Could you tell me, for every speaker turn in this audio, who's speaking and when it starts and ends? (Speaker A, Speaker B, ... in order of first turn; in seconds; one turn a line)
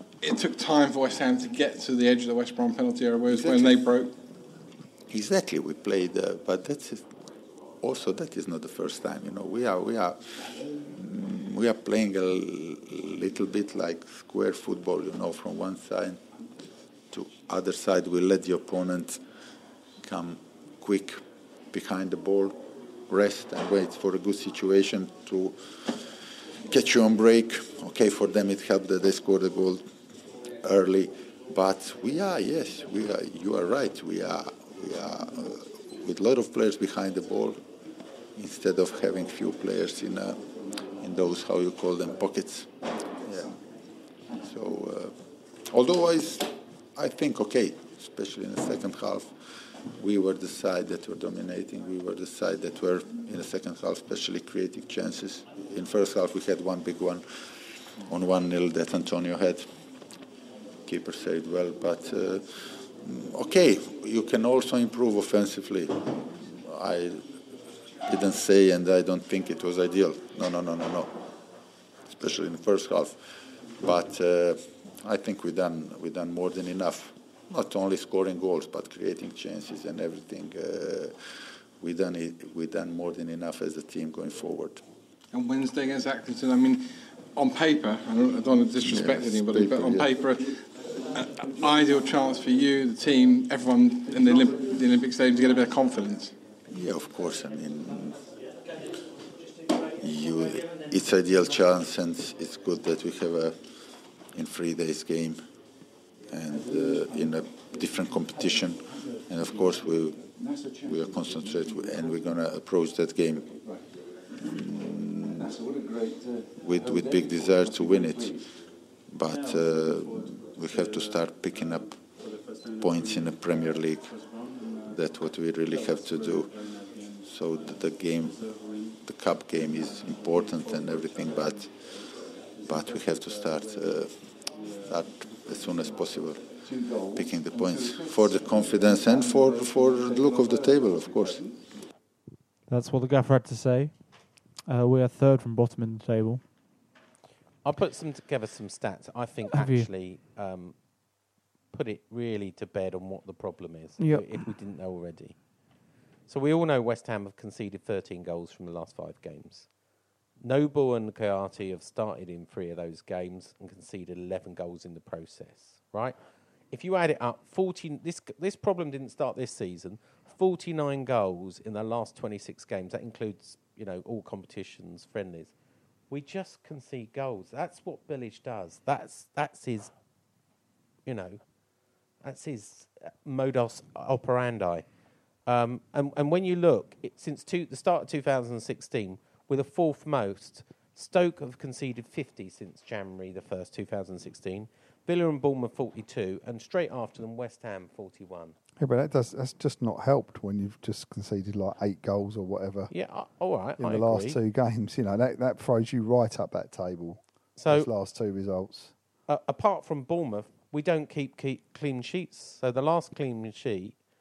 Speaker A: 0.2-4.1
Speaker B: 3.3-3.8
Speaker B: 5.1-7.0
Speaker B: 7.8-16.2
Speaker B: 17.1-19.2
Speaker B: 20.0-21.2
Speaker B: 21.7-22.5
Speaker B: 23.1-26.0
Speaker B: 26.7-29.8
Speaker B: 30.6-37.6
Speaker B: 38.4-40.4
Speaker B: 41.0-42.7
Speaker B: 43.2-43.5
Speaker B: 44.3-45.1
Speaker B: 45.7-49.3
Speaker B: 50.0-57.2
Speaker B: 58.0-59.6
Speaker B: 60.9-67.2
Speaker B: 68.1-71.1
Speaker B: 72.1-73.2
Speaker B: 73.8-81.1
Speaker B: 81.8-84.8
Speaker A: 85.3-96.3
Speaker B: 88.8-90.2
Speaker B: 96.7-98.2
Speaker B: 100.0-103.5
Speaker B: 104.3-105.4
Speaker B: 106.3-113.5
Speaker B: 114.3-115.6
Speaker B: 116.5-118.4
Speaker B: 119.1-122.0
Speaker B: 122.7-124.2
Speaker B: 124.8-132.0
Speaker B: 132.6-141.5
Speaker C: 142.7-143.9
Speaker C: 144.7-146.4
Speaker D: 147.6-150.7
Speaker C: 149.5-149.9
Speaker D: 151.7-155.3
Speaker C: 154.0-154.5
Speaker D: 156.3-159.7
Speaker D: 160.4-166.2
Speaker D: 166.7-175.5
Speaker D: 176.1-179.9
Speaker D: 181.1-181.4
Speaker D: 182.2-184.8
Speaker D: 185.5-198.5
Speaker E: 198.8-202.9
Speaker D: 202.9-204.4
Speaker E: 203.8-208.9
Speaker D: 207.6-207.9
Speaker D: 209.3-213.9